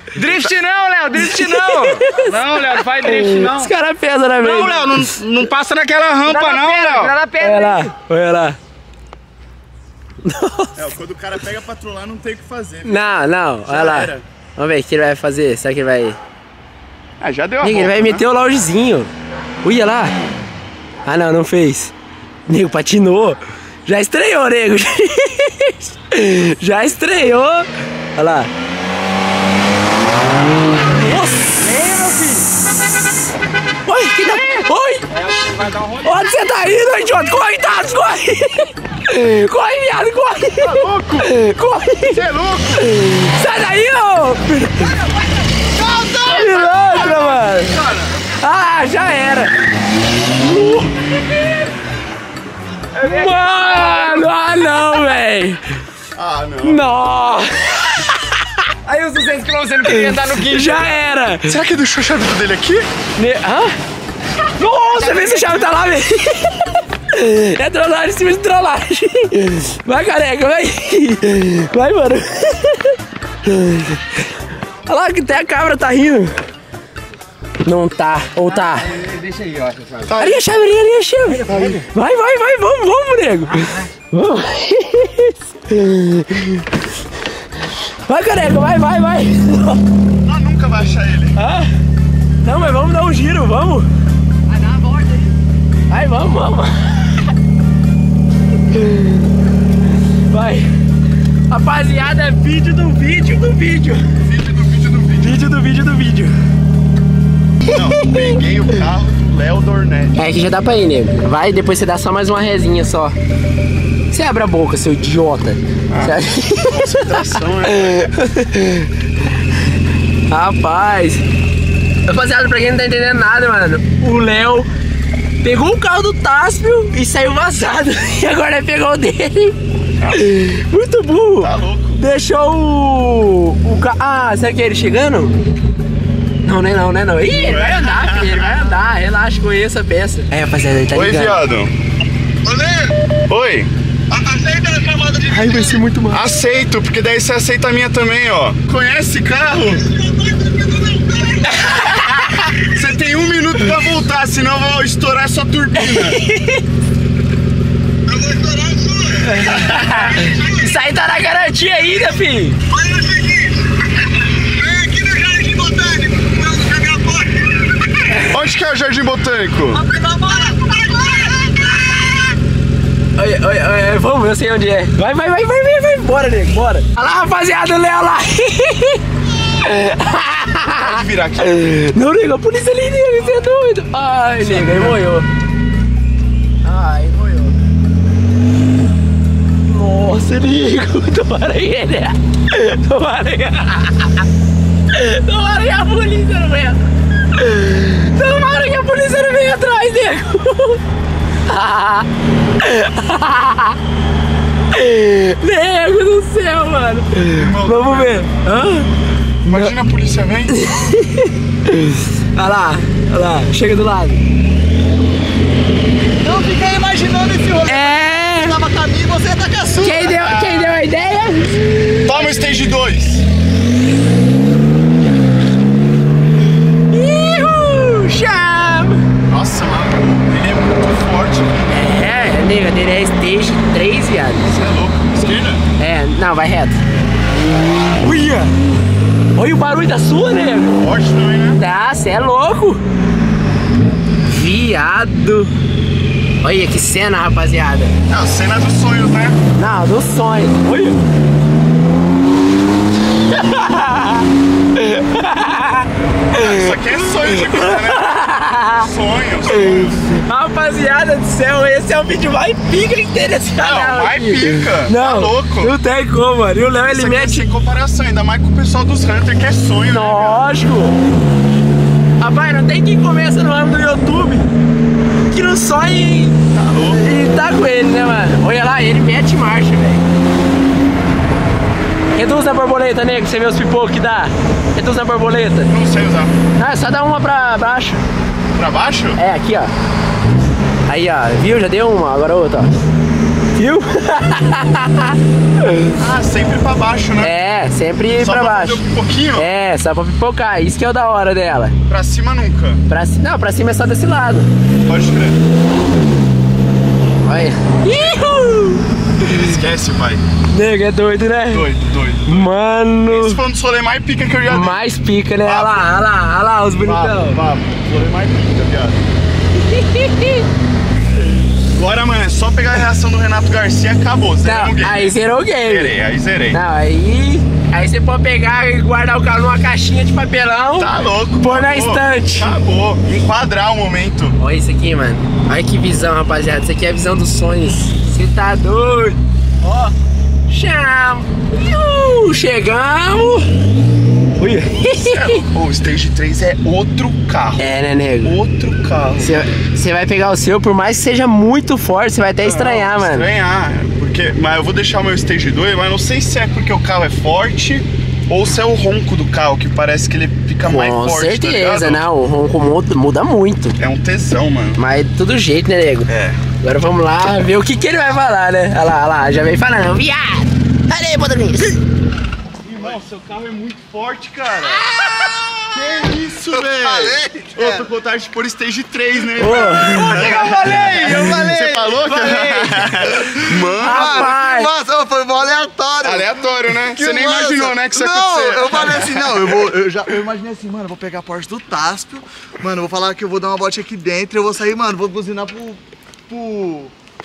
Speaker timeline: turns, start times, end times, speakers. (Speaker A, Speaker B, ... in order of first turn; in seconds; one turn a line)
Speaker A: 0.1-2.5
Speaker B: 1.2-2.2
Speaker C: 2.2-3.7
Speaker B: 3.0-5.1
Speaker A: 3.3-3.7
Speaker C: 4.4-7.1
Speaker A: 6.2-7.9
Speaker B: 7.4-8.6
Speaker B: 10.2-10.8
Speaker D: 10.8-13.2
Speaker B: 12.8-16.2
Speaker D: 13.7-14.2
Speaker D: 17.2-18.2
Speaker B: 17.6-19.1
Speaker B: 19.6-20.1
Speaker B: 21.1-21.9
Speaker B: 22.5-28.5
Speaker B: 30.9-31.6
Speaker C: 31.7-32.2
Speaker A: 31.9-32.5
Speaker B: 33.9-35.1
Speaker C: 35.1-36.4
Speaker B: 36.0-45.0
Speaker D: 40.6-41.3
Speaker D: 42.0-42.9
Speaker E: 45.7-47.0
Speaker B: 46.2-47.8
Speaker B: 48.4-49.5
Speaker B: 50.4-51.4
Speaker B: 53.0-55.6
Speaker C: 53.0-54.2
Speaker D: 56.1-56.8
Speaker B: 56.6-58.6
Speaker A: 58.9-61.0
Speaker B: 59.8-61.5
Speaker D: 61.5-62.9
Speaker B: 63.2-63.8
Speaker B: 64.6-66.6
Speaker A: 65.0-65.6
Speaker B: 67.1-74.2
Speaker B: 74.9-76.4
Speaker B: 77.6-78.9
Speaker A: 78.6-80.2
Speaker D: 80.0-80.5
Speaker B: 80.2-86.7
Speaker A: 81.3-81.8
Speaker D: 81.5-81.8
Speaker B: 88.1-89.8
Speaker D: 90.2-91.4
Speaker B: 91.4-91.7
Speaker B: 92.4-93.9
Speaker A: 94.5-95.3
Speaker B: 95.9-97.3
Speaker B: 98.7-99.3
Speaker B: 100.3-100.7
Speaker B: 101.5-104.1
Speaker D: 104.2-105.5
Speaker B: 105.2-106.3
Speaker D: 107.7-110.2
Speaker B: 107.7-108.4
Speaker B: 110.2-113.2
Speaker B: 114.1-118.9
Speaker D: 115.9-118.1
Speaker B: 120.3-121.2
Speaker B: 122.1-124.7
Speaker B: 125.4-129.6
Speaker B: 130.1-135.4
Speaker D: 131.4-132.1
Speaker B: 136.4-141.4
Speaker D: 137.3-138.7
Speaker D: 140.9-141.7
Speaker D: 143.3-143.7
Speaker B: 145.3-146.3
Speaker D: 146.1-149.9
Speaker B: 151.5-152.5
Speaker D: 152.7-156.2
Speaker B: 155.8-156.6
Speaker E: 158.2-158.8
Speaker B: 159.2-162.6
Speaker E: 164.7-167.1
Speaker D: 168.3-169.8
Speaker B: 173.2-179.0
Speaker B: 179.6-185.3
Speaker D: 180.8-181.8
Speaker D: 184.4-185.0
Speaker B: 186.6-187.6
Speaker B: 189.7-194.2
Speaker B: 194.9-196.8
Speaker B: 197.4-200.8
Speaker B: 201.5-202.1
Speaker B: 202.6-203.8
Speaker B: 204.7-208.9
Speaker D: 207.3-208.3
Speaker D: 209.4-210.6
Speaker B: 209.5-209.7
Speaker B: 210.5-214.2
Speaker E: 216.2-220.2
Speaker B: 217.7-218.6
Speaker B: 219.8-222.3
Speaker D: 220.1-220.8
Speaker D: 222.0-223.3
Speaker B: 226.9-229.1
Speaker D: 229.3-231.8
Speaker B: 231.7-234.6
Speaker D: 234.4-235.7
Speaker B: 235.8-236.8
Speaker B: 238.0-238.5
Speaker B: 239.3-240.8
Speaker D: 240.8-241.6
Speaker B: 241.6-242.8
Speaker B: 244.3-245.5
Speaker B: 246.4-247.9
Speaker D: 248.1-249.4
Speaker B: 249.6-251.0
Speaker B: 253.3-258.9
Speaker D: 256.3-258.2
Speaker D: 258.8-260.1
Speaker B: 259.5-267.5
Speaker D: 263.6-265.8
Speaker D: 266.8-270.6
Speaker B: 269.9-271.0
Speaker B: 272.2-274.5
Speaker B: 275.3-280.1
Speaker D: 276.5-277.1
Speaker B: 282.1-285.7
Speaker D: 285.7-286.4
Speaker B: 286.6-288.0
Speaker D: 288.6-289.2
Speaker B: 289.2-289.7
Speaker B: 290.9-292.7
Speaker B: 293.6-295.9
Speaker D: 296.0-297.3
Speaker B: 297.2-298.8
Speaker D: 298.2-299.5
Speaker B: 299.4-301.8
Speaker D: 301.9-302.8
Speaker B: 302.9-304.5
Speaker D: 304.9-305.4
Speaker B: 307.2-309.6
Speaker D: 307.9-308.2
Speaker D: 309.3-310.2
Speaker B: 310.5-311.7
Speaker D: 311.5-312.5
Speaker B: 312.2-313.4
Speaker D: 313.1-314.8
Speaker B: 314.5-317.4
Speaker D: 315.4-315.9
Speaker D: 316.8-319.0
Speaker B: 319.6-320.5
Speaker D: 321.7-326.6
Speaker B: 324.4-325.9
Speaker B: 326.5-332.6
Speaker D: 330.8-334.4
Speaker B: 334.4-339.9
Speaker B: 340.5-343.5
Speaker B: 344.4-345.4
Speaker D: 344.8-347.7
Speaker B: 347.6-348.4
Speaker D: 348.2-349.5
Speaker B: 349.2-353.3
Speaker D: 352.4-362.0
Speaker B: 360.6-363.8
Speaker D: 363.8-364.8
Speaker B: 364.8-366.1
Speaker D: 366.1-366.4
Speaker B: 366.6-371.8
Speaker D: 372.6-384.3
Speaker B: 374.9-375.3
Speaker E: 375.7-377.9
Speaker B: 379.4-380.2
Speaker C: 379.9-383.1
Speaker A: 380.2-380.6
Speaker E: 383.1-396.9
Speaker B: 383.8-384.7
Speaker D: 386.0-389.7